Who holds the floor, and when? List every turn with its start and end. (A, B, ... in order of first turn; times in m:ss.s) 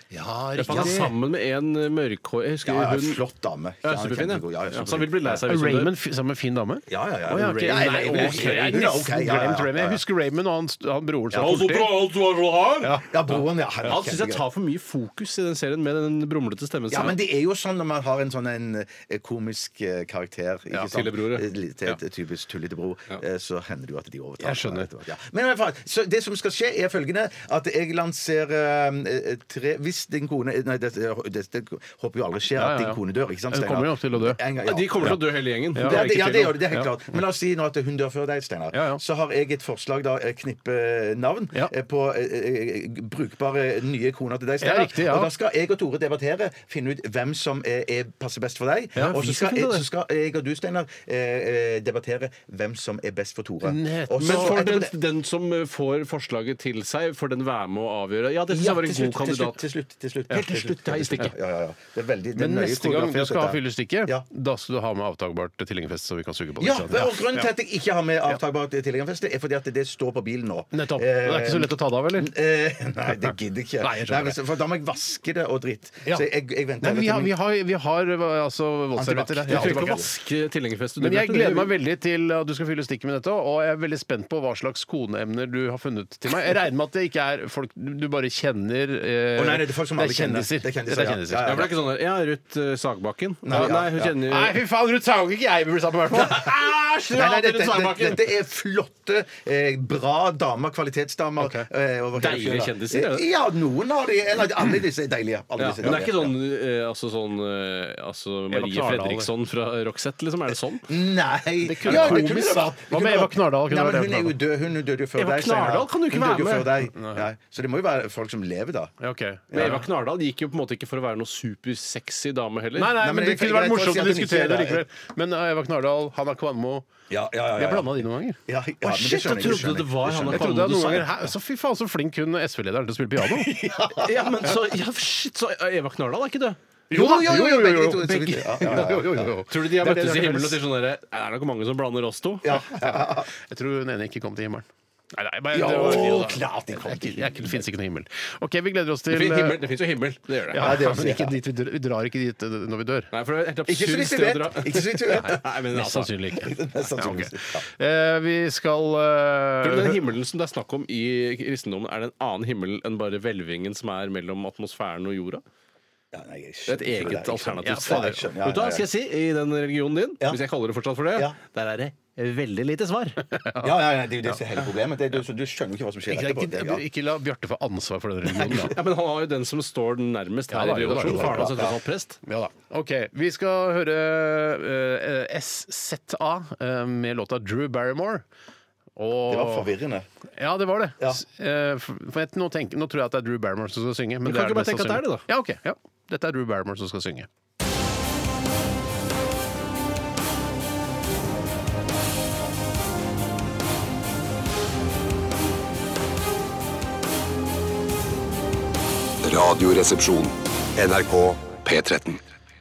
0:00.1-0:01.1 A
0:00.6-0:03.2 B
0:00.6-0:01.1 C
0:02.6-0:05.4 C
0:03.8-0:05.9 B
0:05.4-0:11.9 A
0:06.9-0:10.0 C
0:07.4-0:08.9 B
0:11.4-0:13.0 B
0:12.8-0:14.4 C
0:13.8-0:17.2 B
0:16.9-0:35.2 C
0:20.8-0:21.4 B
0:24.4-0:24.9 A
0:32.6-0:34.4 A
0:34.6-0:36.6 B
0:35.7-0:36.0 A
0:35.8-0:54.9 C
0:38.7-0:39.0 A
0:44.6-0:45.3 A
0:49.0-0:49.8 B
0:53.6-0:54.6 A
0:54.2-0:59.6 B
0:58.5-1:04.2 C
1:00.3-1:01.3 B
1:02.3-1:07.5 A
1:06.6-1:17.3 C
1:10.7-1:12.3 A
1:13.8-1:14.4 A
1:16.8-1:20.1 A
1:19.0-1:20.1 C
1:19.5-1:21.7 B
1:21.0-1:31.7 A
1:29.3-1:31.7 C
1:31.4-1:34.6 B
1:33.4-1:34.2 C
1:33.5-1:36.7 A
1:36.2-1:38.2 B
1:37.1-1:46.3 C
1:41.4-1:41.7 A
1:42.1-1:43.3 B
1:45.6-1:50.9 B
1:48.5-1:49.3 A
1:50.9-1:58.9 C
1:51.6-1:54.4 A
1:51.9-1:52.2 B
1:55.2-1:56.7 B
1:57.0-1:57.2 A
1:59.0-1:59.8 A
1:59.5-1:59.8 C
1:59.5-2:03.0 B
2:02.8-2:06.9 A
2:03.0-2:04.8 C
2:07.1-2:10.6 C
2:07.5-2:08.4 A
2:08.8-2:11.1 B
2:09.4-2:13.5 A
2:13.2-2:14.5 C
2:14.0-2:16.6 B
2:16.9-2:20.6 A
2:16.9-2:19.4 C
2:19.5-2:22.6 B
2:22.4-2:23.3 C
2:22.8-2:29.6 A
2:25.5-2:27.7 C
2:29.1-2:30.7 B
2:30.5-2:33.1 A
2:30.5-2:31.4 C
2:33.1-2:36.1 B
2:33.6-2:35.4 C
2:35.3-2:40.0 A
2:36.3-2:37.6 C
2:39.6-2:45.4 B
2:46.1-2:48.9 C
2:46.7-2:53.2 B
2:47.6-2:48.3 A
2:53.3-2:54.4 A
2:53.6-2:56.8 C
2:56.1-2:58.7 A
2:58.3-2:58.7 C
2:58.4-3:02.2 B
3:00.5-3:01.6 A
3:01.0-3:01.8 C
3:02.2-3:08.2 A
3:09.0-3:09.7 A
3:09.3-3:10.1 C
3:10.4-3:17.3 A
3:14.2-3:15.2 B
3:29.2-3:32.2 D